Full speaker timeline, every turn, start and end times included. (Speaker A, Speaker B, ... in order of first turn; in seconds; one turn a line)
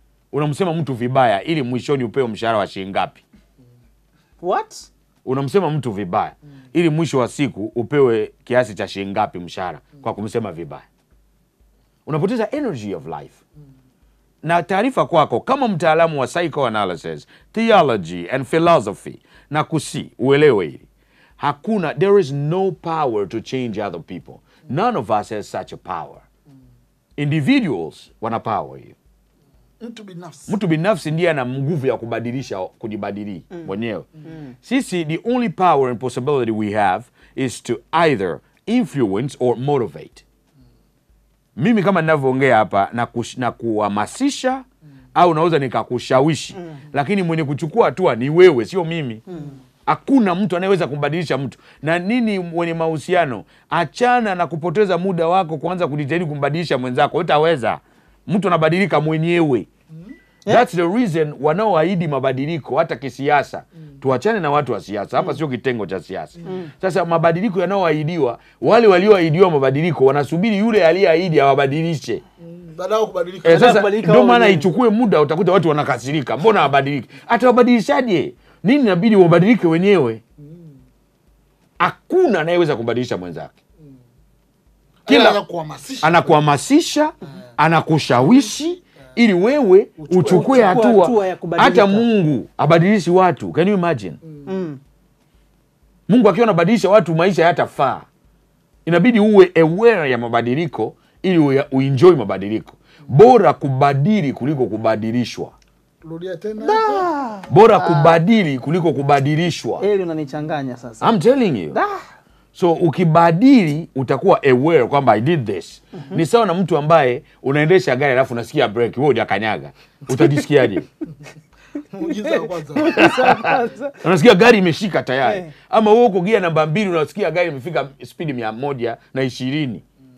Speaker A: 0.3-3.2
Speaker B: 4.4-4.9
Speaker A: 5.2-10.8
Speaker A: 12.1-13.4
Speaker A: 14.4-20.9
Speaker A: 21.4-26.2
Speaker A: 27.2-28.9
Speaker C: 29.8-30.5
Speaker A: 30.5-34.1
Speaker A: 34.6-40.2
Speaker A: 41.5-49.2
Speaker B: 49.3-49.6
Speaker A: 49.9-59.7
Speaker A: 60.5-72.2
Speaker B: 66.4-66.7
Speaker C: 72.4-73.9
Speaker A: 73.4-80.2
Speaker B: 73.5-74.7
Speaker C: 80.4-80.7
Speaker A: 81.8-83.5
Speaker C: 85.0-86.4
Speaker A: 85.1-85.4
Speaker A: 86.0-94.2
Speaker C: 88.2-88.8
Speaker C: 90.0-90.8
Speaker B: 90.1-92.1
Speaker C: 94.2-94.5
Speaker B: 94.5-94.8
Speaker A: 96.1-98.1
Speaker A: 98.8-105.5
Speaker C: 106.0-107.1
Speaker B: 106.6-108.2
Speaker A: 107.5-109.8
Speaker B: 109.8-111.2
Speaker A: 111.0-111.8
Speaker B: 111.7-112.0
Speaker A: 112.5-120.9
Speaker C: 121.9-123.5
Speaker B: 122.0-124.0
Speaker A: 122.9-129.8
Speaker B: 125.2-125.5